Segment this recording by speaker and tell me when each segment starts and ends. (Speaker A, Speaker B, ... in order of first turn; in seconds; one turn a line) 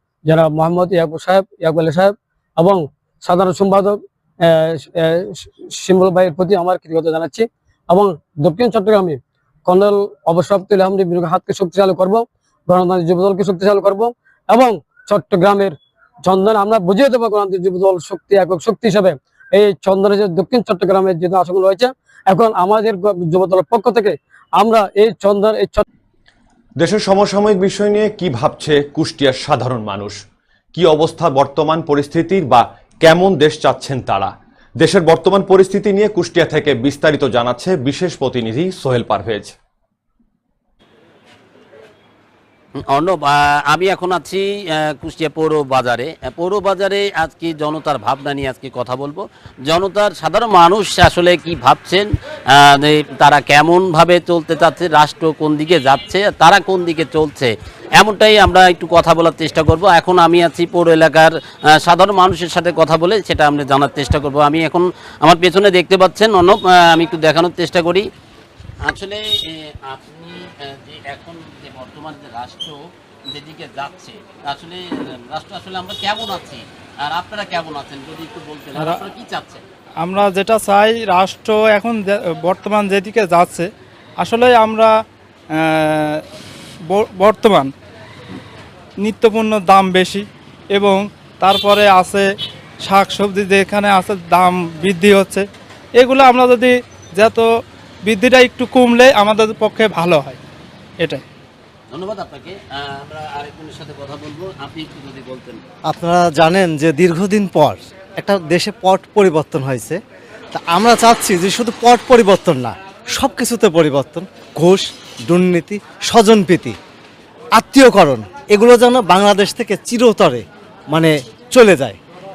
Speaker A: 0.3-15.7
Speaker A: 16.3-25.8
Speaker B: 26.8-30.1
Speaker B: 30.7-39.5
Speaker C: 42.9-44.5
Speaker C: 45.0-52.0
Speaker C: 52.6-68.0
Speaker C: 68.8-72.8
Speaker C: 73.3-79.6
Speaker D: 78.8-79.0
Speaker D: 80.0-83.7
Speaker D: 84.2-84.9
Speaker D: 85.8-86.2
Speaker D: 86.9-87.7
Speaker D: 89.0-92.3
Speaker D: 92.8-95.5
Speaker D: 96.0-97.5
Speaker D: 98.0-100.4
Speaker C: 101.9-105.6
Speaker E: 105.9-110.0
Speaker E: 110.5-116.8
Speaker E: 117.5-122.0